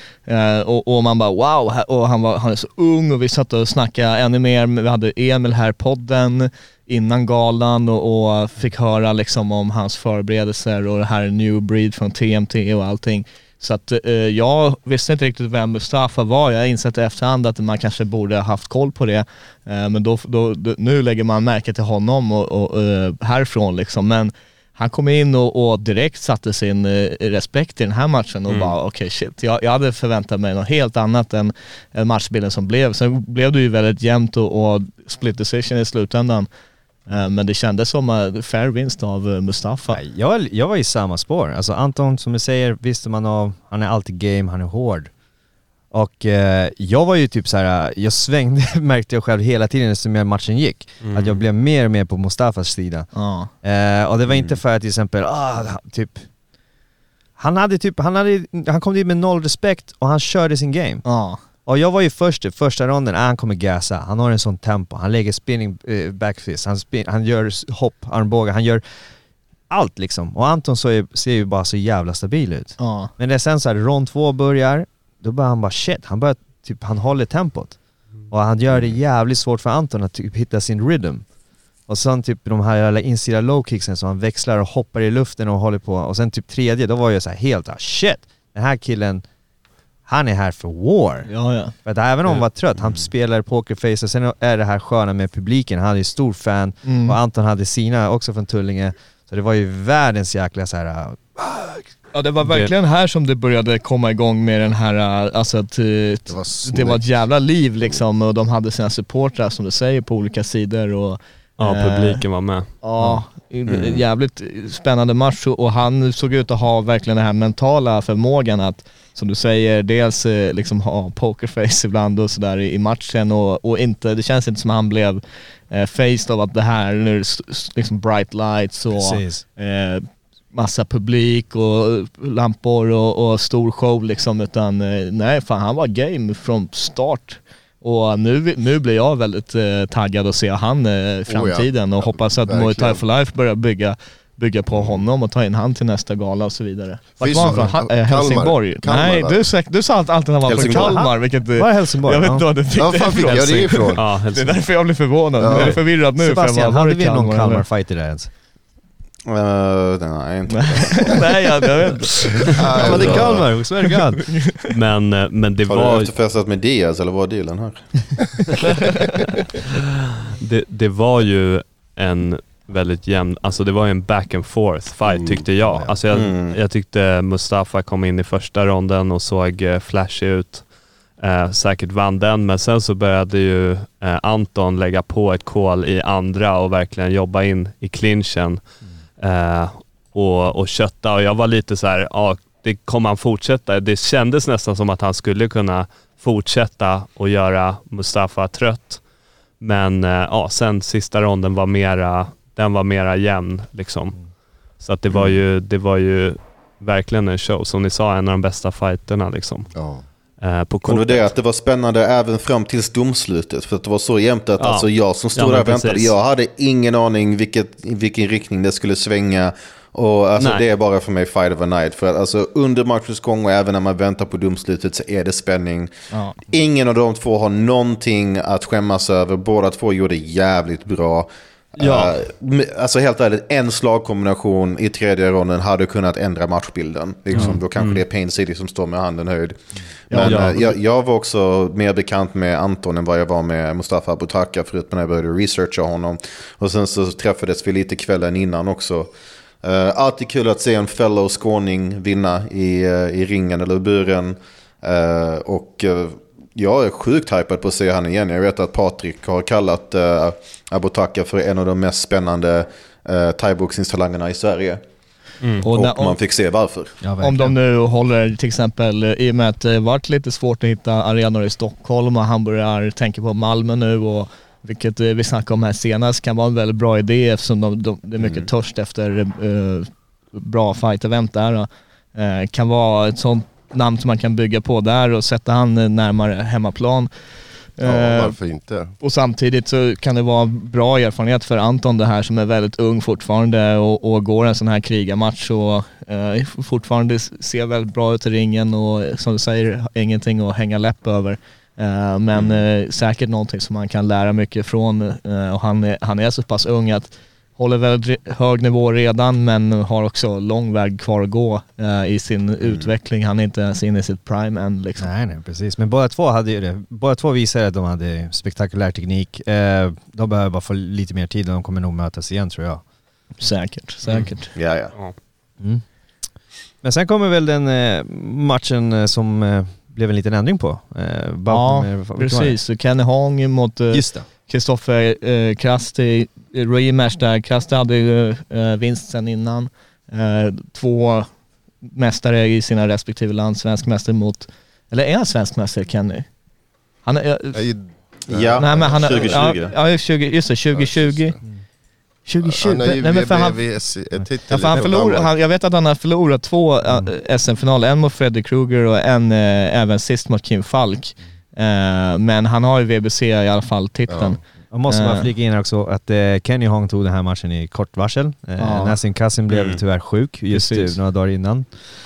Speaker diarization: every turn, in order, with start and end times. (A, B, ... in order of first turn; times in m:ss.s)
0:00.2-0:36.5 A
0:37.1-0:40.0 A
0:39.9-0:45.1 B
0:45.9-0:53.1 B
0:51.0-0:51.4 C
0:53.1-0:53.5 A
0:53.6-0:56.2 B
0:57.4-1:01.0 B
1:01.0-1:01.4 A
1:01.6-1:08.8 B
1:09.7-1:17.8 B
1:12.8-1:13.1 A
1:18.3-1:21.2 B
1:21.9-1:29.2 B
1:30.0-1:31.3 B
1:31.3-1:31.7 A
1:31.8-1:41.8 B
1:36.8-1:37.2 A
1:42.1-1:52.2 A
1:46.3-1:47.0 D
1:51.6-1:52.7 C
1:52.8-2:37.6 A
1:53.7-1:54.0 E
2:08.9-2:09.4 B
2:21.3-2:23.0 D
2:24.8-2:25.0 E
2:27.2-2:29.4 D
2:30.5-2:31.0 E
2:30.5-2:32.5 B
2:32.8-2:34.0 D
2:33.2-2:34.6 C
2:35.4-2:35.8 D
2:35.5-2:38.3 B
2:39.2-2:41.3 E
2:40.5-2:43.3 A
2:42.5-2:43.5 D
2:42.8-2:44.4 B
2:42.8-2:43.3 E
2:44.3-2:44.7 A
2:44.7-2:46.1 C
2:45.7-2:48.8 E
2:50.4-3:00.6 C
2:55.0-2:55.4 D
2:55.6-2:56.0 B
2:56.1-2:56.6 E
3:01.2-3:08.6 C
3:09.2-3:19.0 C
3:19.6-3:24.3 C
3:24.8-3:29.7 C
3:29.7-3:30.0 D
3:30.4-3:31.3 C
3:30.8-3:45.9 E
3:34.6-3:36.1 C
3:40.4-3:40.6 C
3:46.1-3:46.4 A
3:46.5-4:09.1 E
3:51.8-3:52.2 C
3:57.3-3:58.0 C
4:00.1-4:00.5 A
4:00.2-4:00.6 C
4:09.6-4:24.8 E
4:25.4-4:25.6 C
4:25.6-4:26.2 A
4:25.7-4:26.9 E
4:27.0-4:27.6 B
4:27.2-4:47.1 A
4:47.8-4:48.3 A
4:47.8-4:48.9 D
4:49.0-5:15.1 A
5:02.3-5:02.6 E
5:15.0-5:22.8 B
5:23.4-5:24.5 A
5:24.5-5:24.9 E
5:26.8-5:32.6 B
5:31.5-5:41.3 A
5:33.9-5:34.3 B
5:41.8-5:46.3 A
5:47.0-5:47.6 A
5:47.5-5:47.8 D
5:48.3-5:49.7 E
5:48.3-5:49.5 D
5:48.6-5:51.4 A
5:50.7-5:51.4 D
5:52.2-5:53.6 A
5:52.4-5:55.3 D
5:54.5-6:05.3 A
6:04.1-6:04.4 D
6:04.7-6:11.7 B
6:08.6-6:09.0 A
6:09.5-6:09.8 E
6:10.5-6:11.0 A